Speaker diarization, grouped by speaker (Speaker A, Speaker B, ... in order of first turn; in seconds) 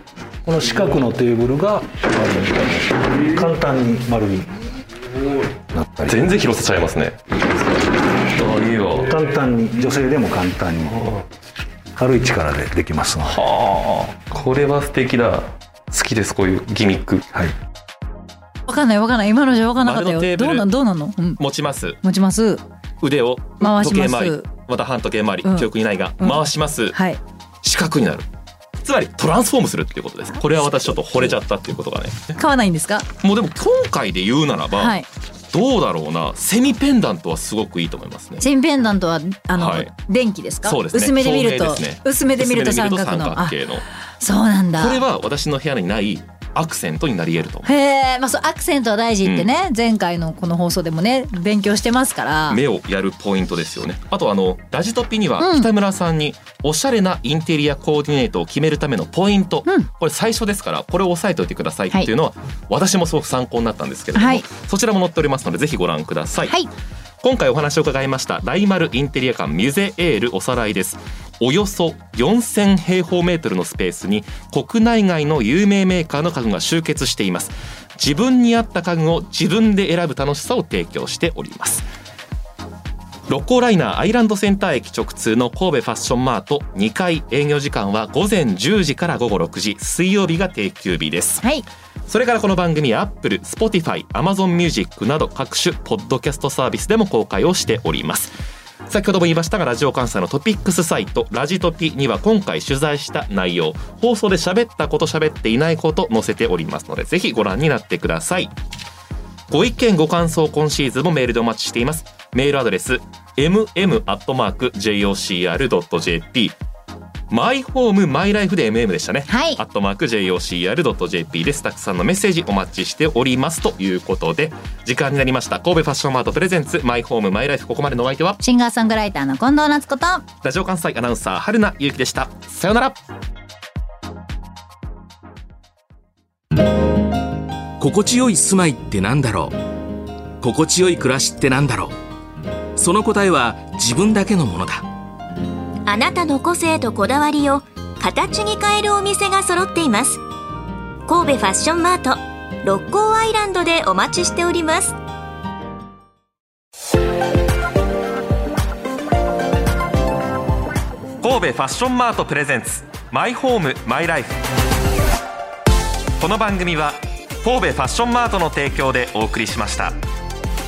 Speaker A: 0.4-4.5, 5.7-6.4, 8.9-11.1, 11.9-13.4
Speaker B: 6.0-9.1, 13.2-17.2, 19.8-20.7, 21.4-22.0, 23.0-27.0, 27.6-28.2, 28.8-32.3, 33.2-35.0, 35.5-38.5, 39.5-39.9, 40.6-43.8, 44.8-47.7, 52.5-66.5, 67.2-81.8, 83.3-91.5, 92.1-98.3, 98.9-108.5, 109.5-116.5, 117.3-128.4, 130.4-133.0, 161.2-164.4, 166.2-170.0
Speaker C: 18.7-21.4, 22.0-22.6, 23.6-24.5, 25.4-26.4, 26.9-27.2, 30.3-30.9, 32.4-33.1, 34.7-35.0, 38.4-43.5, 44.2-45.0, 47.6-52.6, 55.4-55.7, 64.1-64.5, 119.3-119.6, 128.4-130.2
Speaker D: 137.8-139.6, 140.4-141.9, 142.8-144.9
Speaker E: 145.9-150.2, 151.1-154.9